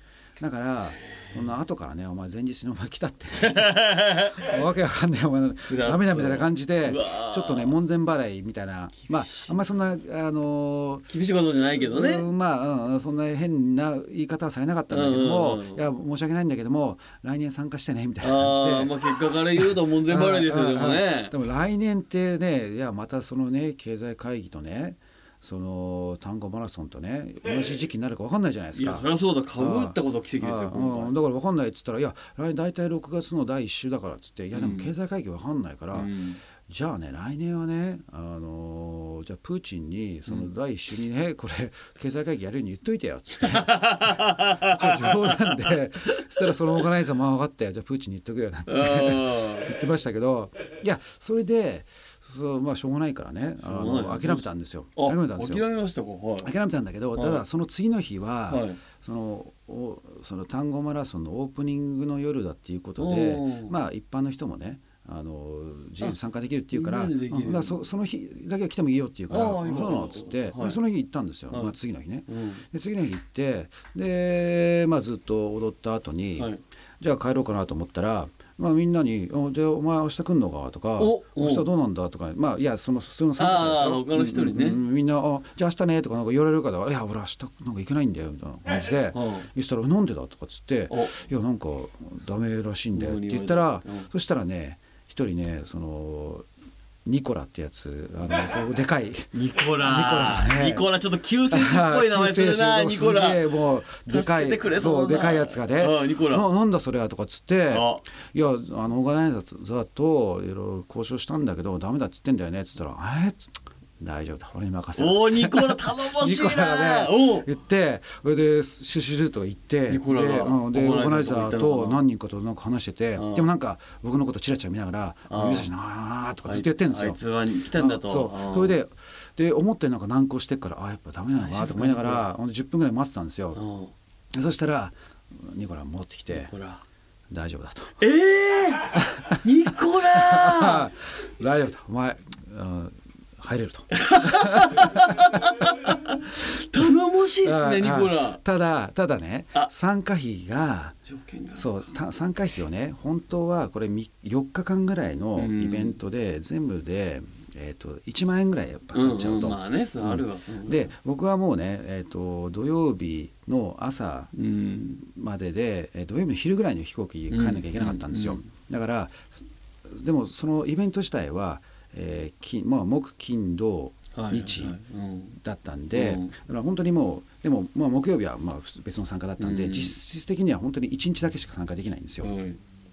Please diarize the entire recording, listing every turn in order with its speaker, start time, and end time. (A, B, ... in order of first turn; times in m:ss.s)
0:00.4-0:03.7 A
0:03.4-0:04.5 B
0:04.3-0:11.1 A
0:05.7-0:07.7 B
0:09.0-0:09.5 B
0:11.1-0:12.2 B
0:11.8-0:36.1 A
0:14.9-0:15.8 B
0:18.2-0:21.3 B
0:28.7-0:31.2 B
0:34.5-0:34.9 B
0:35.9-0:36.4 B
0:36.6-0:55.6 A
0:43.5-0:45.6 B
0:48.7-0:49.7 B
0:53.6-0:56.5 B
0:56.4-1:36.4 A
0:57.2-0:57.4 B
0:58.5-0:58.8 B
1:03.0-1:03.7 B
1:06.7-1:07.8 B
1:09.3-1:10.8 B
1:12.3-1:12.6 B
1:21.0-1:21.7 B
1:23.4-1:24.8 B
1:29.1-1:29.5 B
1:30.9-1:31.2 B
1:32.9-1:34.1 B
1:37.0-1:40.9 A
1:39.3-1:46.5 B
1:41.4-2:07.2 A
1:47.7-1:48.0 B
1:55.0-1:57.5 B
1:59.9-2:02.0 B
2:03.2-2:03.5 B
2:05.3-2:05.7 B
2:06.4-2:08.8 B
2:07.7-2:13.6 A
2:11.3-2:12.3 B
2:13.5-2:13.9 B
2:14.3-2:16.5 A
2:16.3-2:16.8 B
2:17.3-2:18.0 A
2:18.0-2:20.9 B
2:18.9-2:19.4 A
2:20.1-2:25.2 A
2:23.9-2:28.4 B
2:27.4-2:31.0 A
2:31.0-2:32.0 B
2:31.5-2:44.3 A
2:35.4-2:36.0 B
2:38.9-2:40.9 B
2:44.3-2:45.0 B
2:45.0-2:54.8 A
2:47.3-2:48.5 B
2:54.1-2:55.4 B
2:55.4-3:02.3 A
2:55.9-2:56.3 B
2:59.4-3:00.0 B
3:02.2-3:02.6 B